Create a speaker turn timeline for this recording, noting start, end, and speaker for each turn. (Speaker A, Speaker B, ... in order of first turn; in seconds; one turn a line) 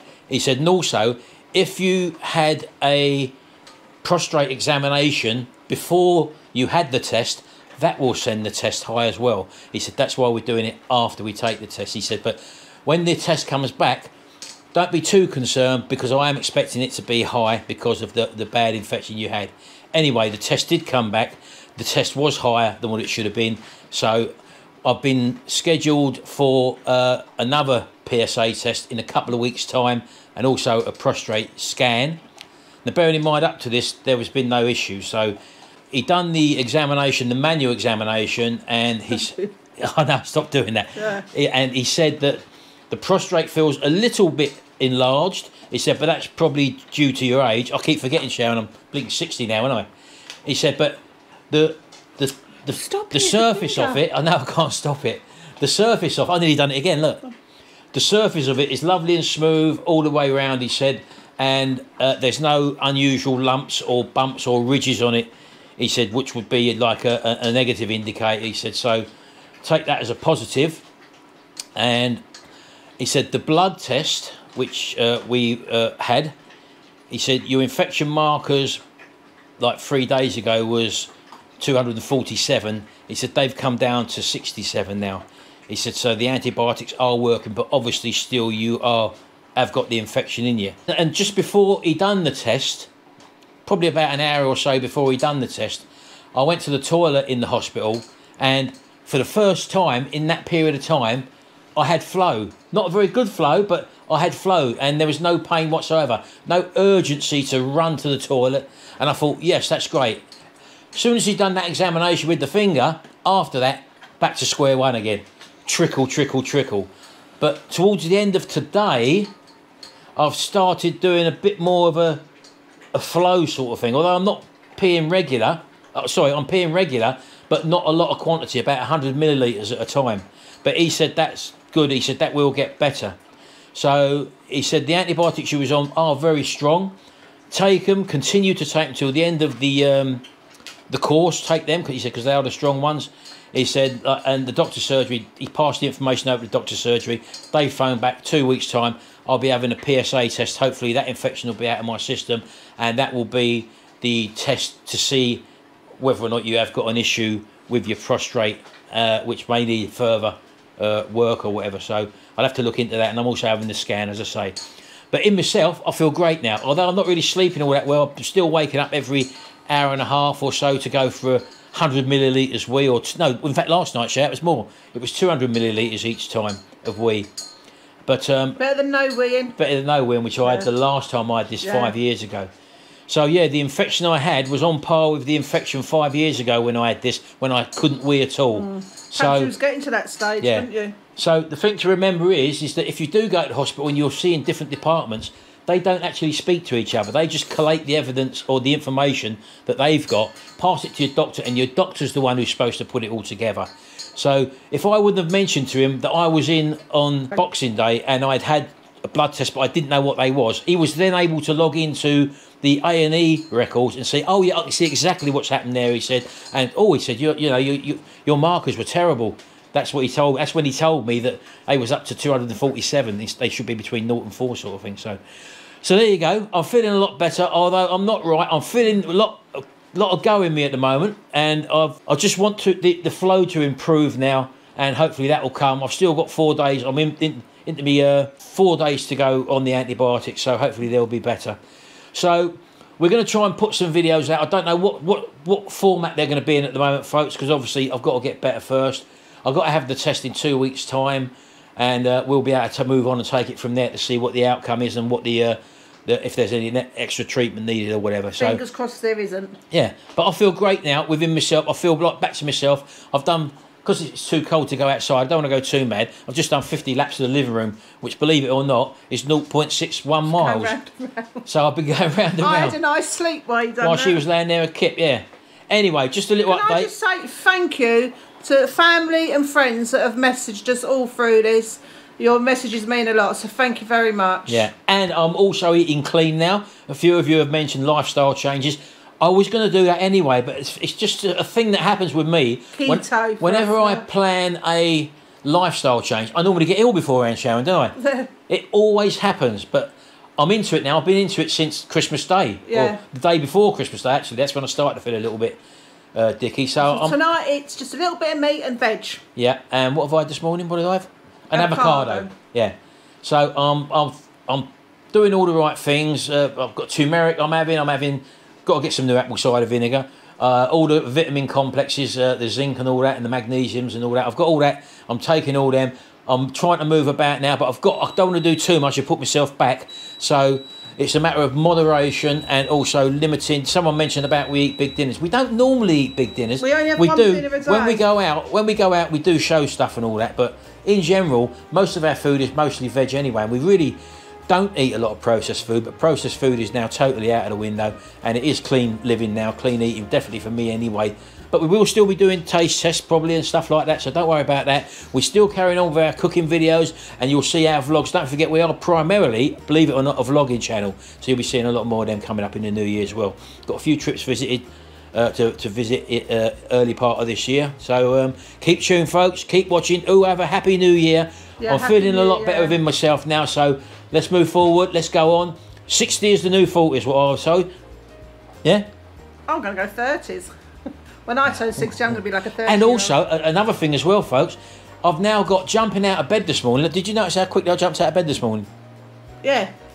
Speaker A: 0.3-3.4
Speaker A: 4.0-14.1
Speaker A: 14.7-24.3
Speaker A: 24.8-32.2
Speaker A: 32.9-35.4
Speaker A: 35.9-49.9
Speaker B: 41.0-41.2
Speaker A: 50.5-57.2
Speaker B: 52.8-54.0
Speaker A: 57.9-69.1
Speaker A: 69.6-70.8
Speaker A: 71.8-72.2
Speaker A: 73.0-76.3
Speaker A: 77.1-78.8
Speaker A: 79.6-92.9
Speaker A: 93.7-110.2
Speaker A: 110.9-119.3
Speaker A: 120.2-122.2
Speaker A: 122.9-133.2
Speaker A: 133.7-137.0
Speaker A: 137.5-140.2
Speaker A: 140.9-155.4
Speaker A: 156.0-164.6
Speaker A: 165.1-177.3
Speaker A: 178.1-178.6
Speaker B: 178.6-179.6
Speaker A: 179.6-182.5
Speaker B: 180.4-180.7
Speaker B: 181.6-181.9
Speaker A: 183.1-189.5
Speaker B: 188.6-191.0
Speaker A: 190.4-225.2
Speaker A: 225.8-241.6
Speaker A: 242.1-258.6
Speaker B: 258.4-259.6
Speaker A: 259.7-270.8
Speaker B: 270.2-271.4
Speaker A: 271.4-272.8
Speaker B: 272.4-274.2
Speaker A: 273.8-276.9
Speaker B: 276.5-284.7
Speaker A: 284.5-298.0
Speaker B: 292.7-294.0
Speaker B: 298.0-298.3
Speaker A: 298.5-305.6
Speaker B: 302.7-303.0
Speaker A: 306.1-307.2
Speaker B: 306.8-309.2
Speaker A: 309.4-377.7
Speaker B: 311.5-312.3
Speaker B: 336.6-338.0
Speaker B: 371.6-372.8
Speaker B: 379.5-380.5
Speaker B: 381.3-383.1
Speaker A: 382.6-388.7
Speaker B: 389.4-389.7